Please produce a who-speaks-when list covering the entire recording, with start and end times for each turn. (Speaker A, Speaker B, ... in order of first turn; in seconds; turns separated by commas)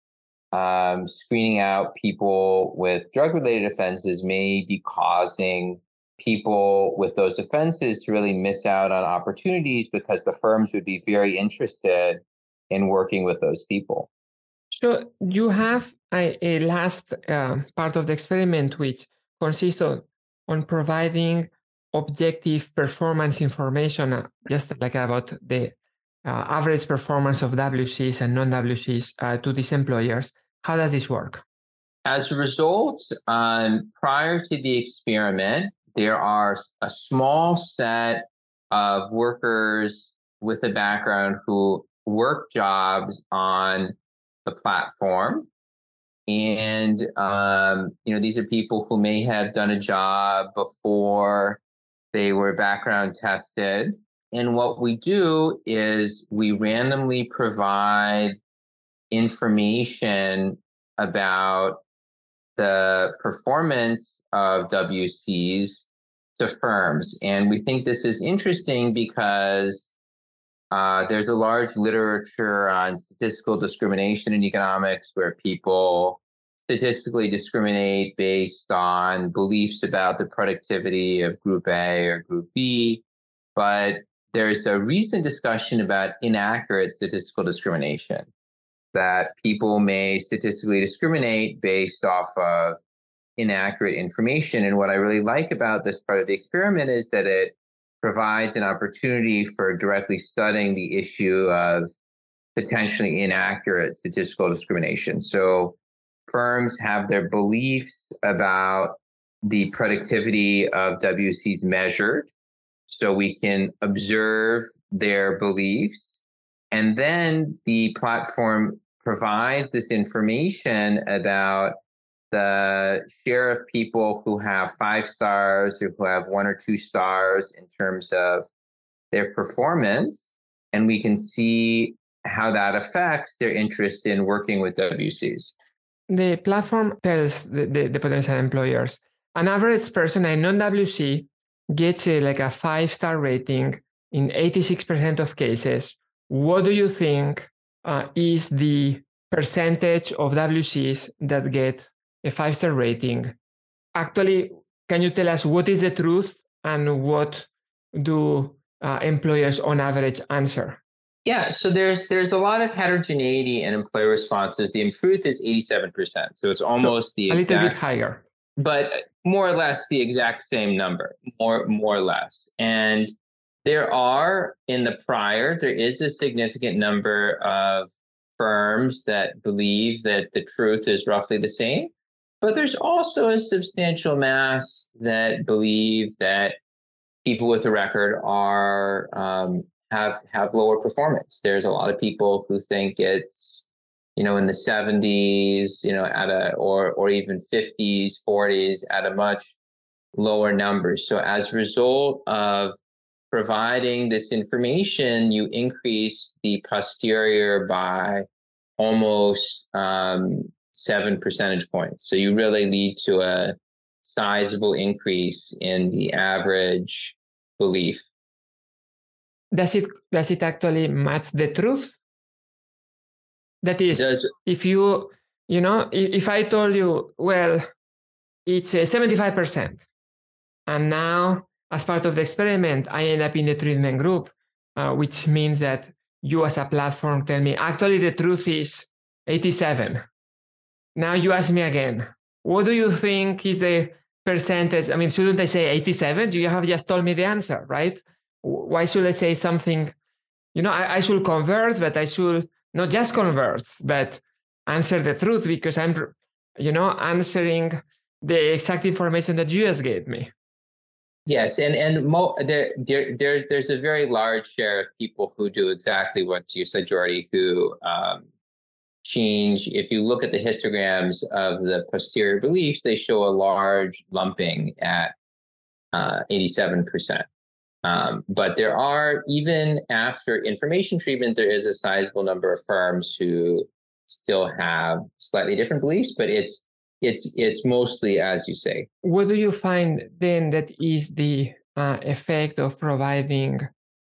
Speaker A: 0.5-14.1, Speaker B: 14.7-31.4, Speaker A: 32.0-45.5, Speaker A: 46.3-51.6, Speaker A: 52.1-58.4, Speaker A: 59.1-61.8, Speaker A: 62.6-65.9, Speaker A: 66.4-69.9, Speaker A: 70.7-83.0, Speaker A: 83.6-88.3, Speaker A: 88.9-92.8, Speaker A: 93.4-101.9, Speaker A: 102.6-105.8, Speaker A: 106.3-112.3, Speaker A: 112.9-116.2, Speaker A: 116.7-121.8, Speaker A: 122.3-128.5, Speaker A: 129.1-135.5, Speaker B: 136.1-153.3, Speaker B: 153.9-160.8, Speaker A: 161.2-168.0, Speaker B: 166.8-168.2, Speaker A: 168.6-173.1, Speaker A: 173.6-186.6, Speaker A: 187.2-199.6, Speaker A: 200.1-202.8, Speaker A: 203.3-208.2, Speaker A: 208.8-218.1, Speaker B: 219.5-222.0, Speaker B: 223.6-227.7, Speaker A: 223.9-224.3, Speaker B: 228.5-229.8, Speaker B: 230.7-240.0, Speaker B: 240.9-249.9, Speaker B: 250.5-260.3, Speaker A: 261.3-268.3, Speaker A: 269.0-275.2, Speaker A: 275.9-277.3, Speaker A: 277.8-288.9, Speaker B: 289.0-293.6